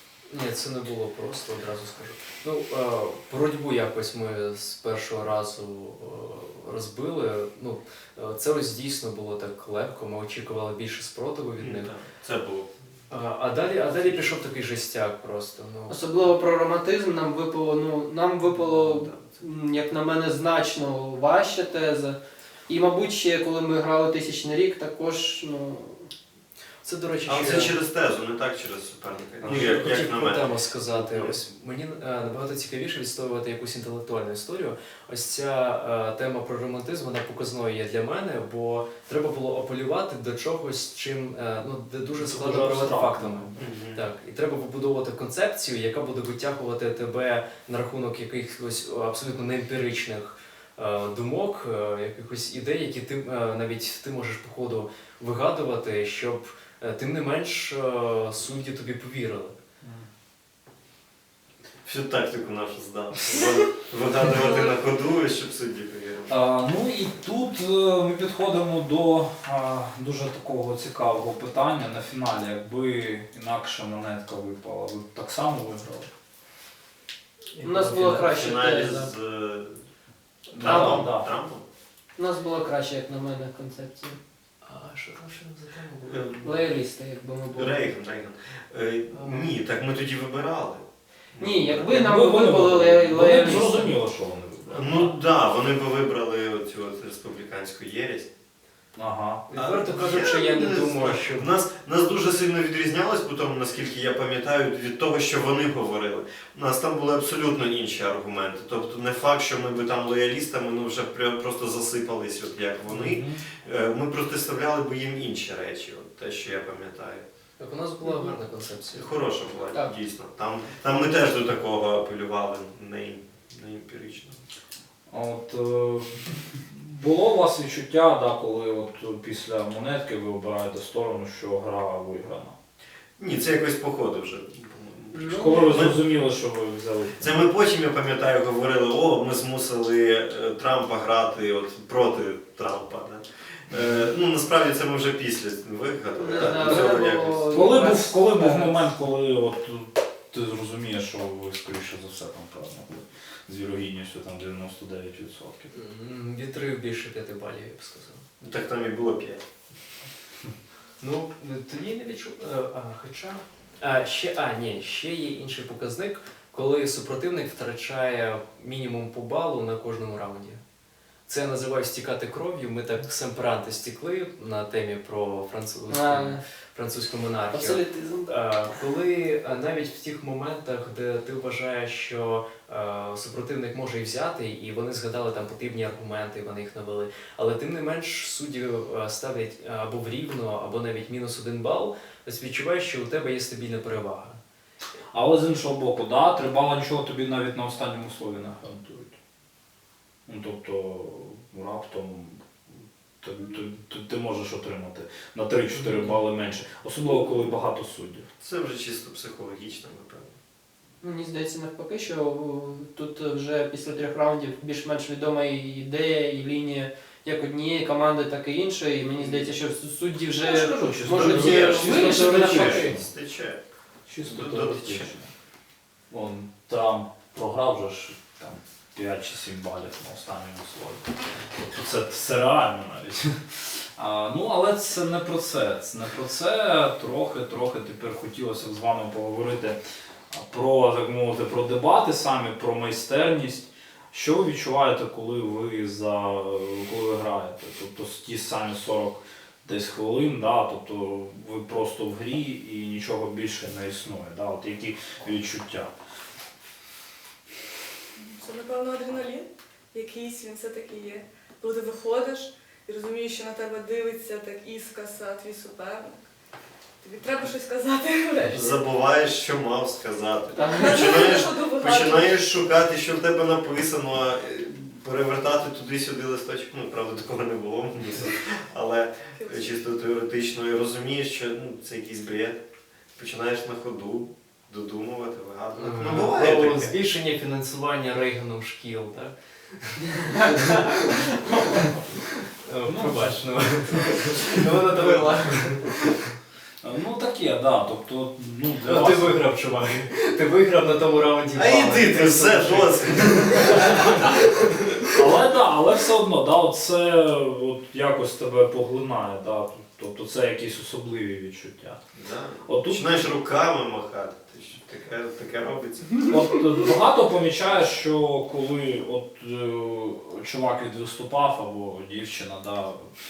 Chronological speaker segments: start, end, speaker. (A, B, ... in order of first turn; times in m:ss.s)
0:00.3-0:11.9 A
0:11.6-0:12.7 B
0:13.1-0:16.0 A
0:15.9-0:26.1 C
0:18.6-0:19.4 B
0:26.8-0:27.8 A
0:27.2-0:31.4 B
0:29.4-0:29.7 D
0:29.4-0:59.5 A
0:42.2-0:43.6 D
0:43.6-0:44.0 B
1:01.8-1:06.3 B
1:06.3-1:16.1 D
1:17.6-1:18.3 A
1:17.6-1:19.1 C
1:18.2-1:19.8 B
1:20.5-1:21.2 D
1:20.5-1:21.6 B
1:20.6-1:21.0 C
1:22.2-1:24.2 C
1:24.6-1:26.2 A
1:26.1-1:26.5 B
1:26.4-1:27.8 C
1:27.5-1:31.9 B
1:29.2-1:29.5 A
1:31.4-1:33.9 C
1:31.9-1:35.1 D
1:34.7-1:38.3 B
1:39.0-1:39.4 D
1:39.5-1:41.5 A
1:39.5-1:57.2 B
1:52.9-1:53.4 D
1:57.6-1:59.1 A
1:58.9-2:04.4 B
2:05.1-2:12.5 D
2:13.2-2:16.0 B
2:15.1-2:15.8 C
2:15.3-2:17.4 D
2:17.2-2:27.8 B
2:26.1-2:28.7 C
2:27.5-2:35.7 D
2:35.7-2:38.2 A
2:38.4-2:39.4 B
2:41.0-2:50.6 A
2:51.3-3:14.4 A
2:55.9-2:56.4 C
2:57.5-2:58.3 C
3:15.1-3:19.2 D
3:20.2-3:22.4 D
3:23.2-3:28.2 D
3:28.4-3:30.3 B
3:31.0-3:42.9 C
3:39.2-3:39.5 B
3:40.4-3:43.1 D
3:41.1-3:43.6 B
3:44.1-3:45.3 D
3:44.2-3:45.1 B
3:46.1-3:53.3 D
3:54.0-3:59.8 D
4:00.3-4:15.9 D
4:18.2-4:26.2 E
4:27.0-4:28.7 E
4:28.5-4:42.6 B
4:30.6-4:30.9 C
4:30.7-4:32.3 E
4:39.4-4:39.7 E
4:43.2-4:46.9 B
4:45.8-4:56.3 A
4:52.8-4:54.1 D
4:54.6-4:55.3 C
4:56.8-4:59.4 D
4:58.8-5:04.8 A
5:01.5-5:03.9 B
5:05.1-5:12.0 D
5:12.1-5:16.4 B
5:12.6-5:13.0 D
5:16.3-5:23.0 D